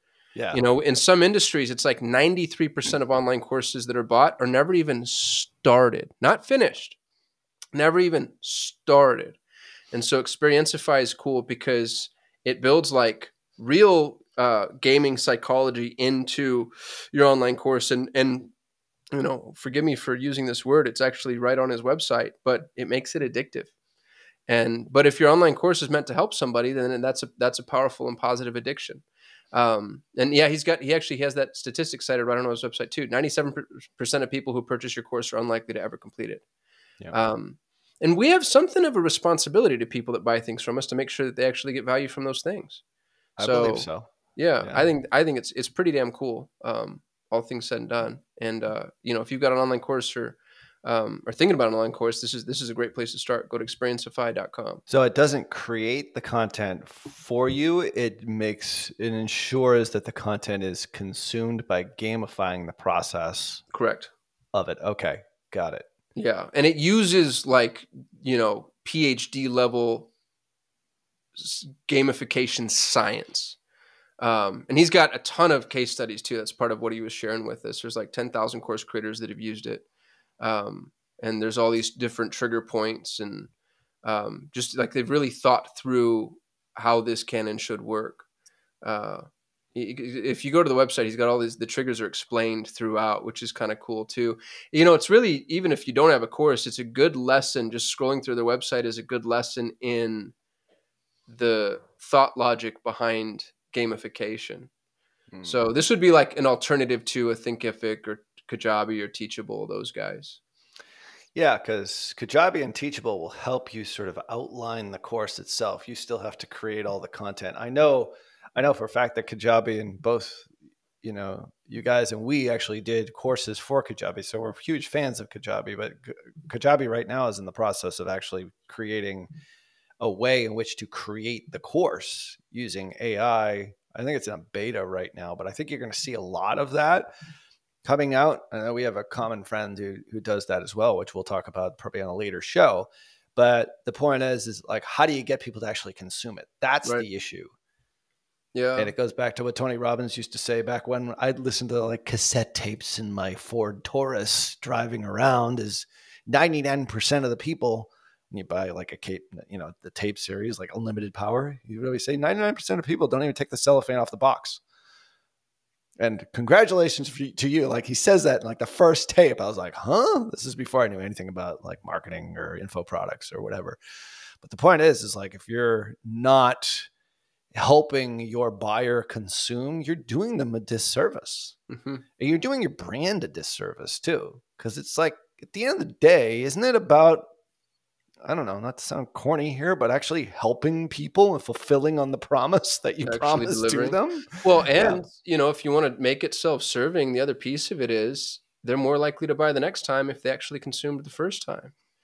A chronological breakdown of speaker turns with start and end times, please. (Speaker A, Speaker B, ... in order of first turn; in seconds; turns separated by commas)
Speaker A: 0.3-0.6, Speaker B: 0.5-7.0, Speaker B: 7.7-9.4, Speaker B: 9.9-18.5, Speaker B: 19.1-23.7, Speaker B: 24.5-36.4, Speaker B: 37.1-42.8, Speaker A: 43.4-44.1, Speaker B: 43.4-54.8, Speaker A: 44.6-44.9, Speaker A: 54.9-63.6, Speaker B: 63.7-64.1, Speaker A: 64.5-65.9, Speaker B: 66.2-70.1, Speaker B: 71.4-73.6, Speaker B: 74.2-79.8, Speaker B: 80.4-83.5, Speaker B: 84.0-88.2, Speaker B: 88.8-100.3, Speaker B: 101.3-104.7, Speaker A: 105.3-105.6, Speaker B: 105.4-110.4, Speaker A: 111.3-120.5, Speaker A: 121.0-129.3, Speaker A: 130.0-137.1, Speaker A: 137.8-147.5, Speaker B: 148.5-148.9, Speaker A: 148.8-164.6, Speaker A: 166.0-173.8, Speaker A: 174.4-176.9, Speaker A: 177.5-181.6, Speaker B: 181.7-182.0, Speaker A: 182.2-187.3, Speaker A: 188.2-195.0, Speaker B: 193.0-201.7